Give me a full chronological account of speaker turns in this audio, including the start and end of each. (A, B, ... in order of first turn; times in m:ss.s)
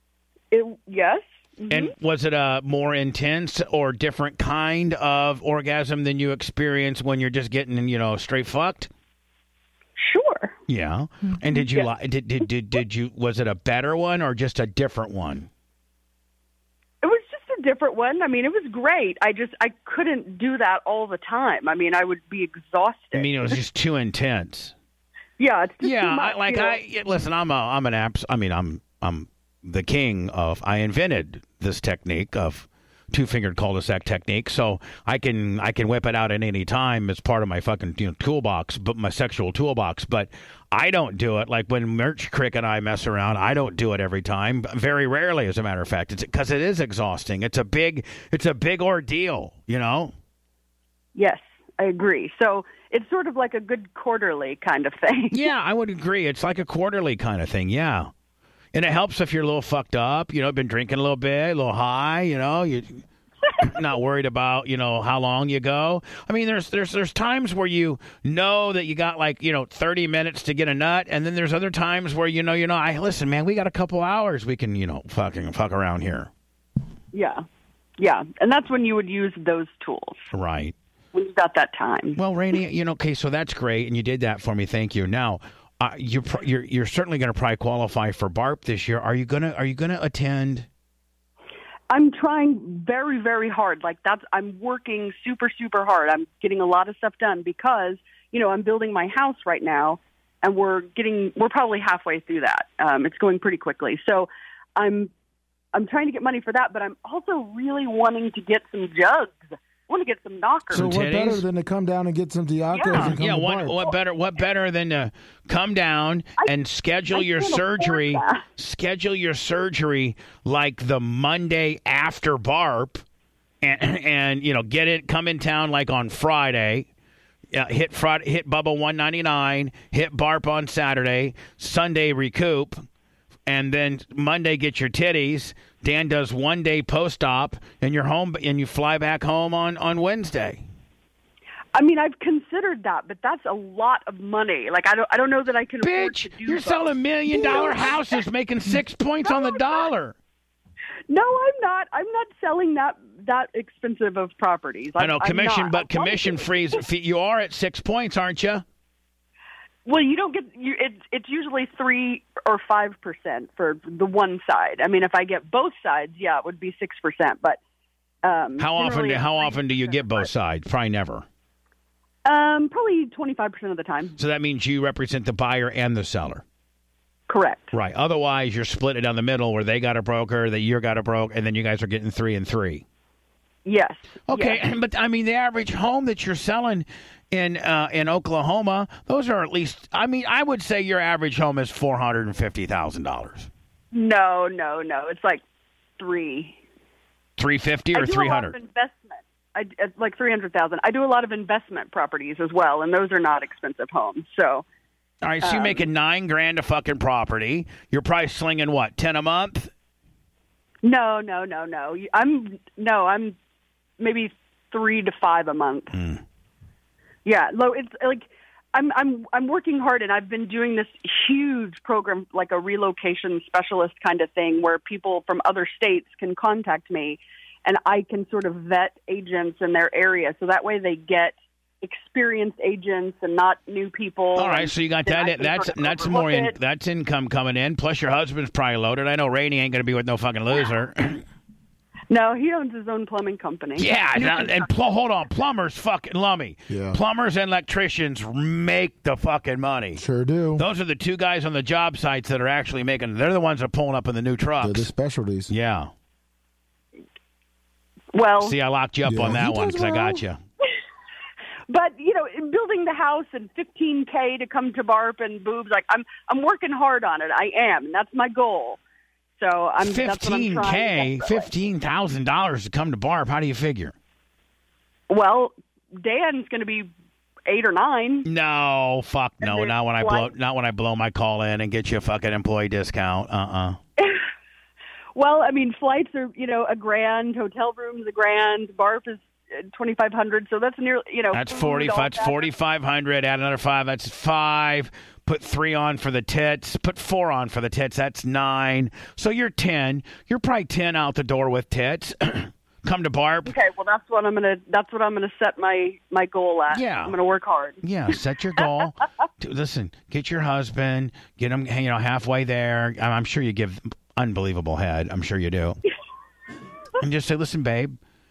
0:00.5-0:01.9 A
0:01.7-0:08.9 B
0:10.0-0:10.5 A
0:10.7-0:15.5 B
0:17.0-0:23.3 A
0:23.1-0:24.7 B
0:25.4-0:26.8 A
0:25.8-0:50.1 B
0:51.1-0:55.4 A
0:55.3-0:58.1 B
0:58.7-1:03.0 B
1:03.6-1:16.3 B
1:17.1-1:17.4 A
1:18.0-1:20.2 A
1:20.3-1:20.7 B
1:21.1-1:22.2 A
1:22.2-1:30.7 B
1:31.9-1:45.1 A
1:45.7-1:50.9 A
1:50.7-1:51.4 B
1:50.7-1:53.8 C
1:52.7-1:53.1 A
1:52.9-2:03.0 B
1:57.1-1:58.4 A
2:03.6-2:06.9 B
2:07.5-2:12.8 B
2:13.5-2:20.6 B
2:21.7-2:28.2 A
2:25.8-2:30.1 B
2:29.2-2:29.8 A
2:31.1-2:36.8 A
2:35.0-2:38.6 B
2:39.8-2:47.6 A
2:48.2-2:50.3 A
2:48.6-2:51.2 B
2:52.2-2:54.1 A
2:54.2-2:56.4 B
2:57.3-2:57.7 A
2:57.7-3:02.8 B
3:03.6-3:04.6 A
3:04.3-3:13.5 B
3:13.9-3:15.4 A
3:16.0-3:16.6 A
3:17.4-3:18.6 B
3:17.9-3:24.6 A
3:25.2-3:29.7 B
3:25.4-3:25.8 A
3:30.8-3:33.3 A
3:34.0-3:35.9 A
3:35.9-3:36.2 B
3:37.2-3:56.5 A
3:54.3-4:01.2 B
4:02.1-4:04.7 A
4:03.8-4:10.0 B
4:06.7-4:07.0 C
4:09.9-4:10.6 C
4:10.6-4:14.9 B
4:14.6-4:15.5 C
4:15.5-4:15.9 B
4:18.1-4:18.6 A
4:18.4-4:20.4 B
4:19.0-4:20.2 C
4:21.7-4:28.8 A
4:29.4-4:31.5 A
4:29.8-4:33.9 B
4:35.1-4:36.9 A
4:37.5-4:38.2 A
4:38.2-4:43.8 B
4:39.4-4:40.3 A
4:45.2-4:52.5 A
4:51.3-5:03.5 B
5:03.4-5:07.8 A
5:06.7-5:07.2 B
5:07.8-5:15.8 B
5:17.0-5:18.0 B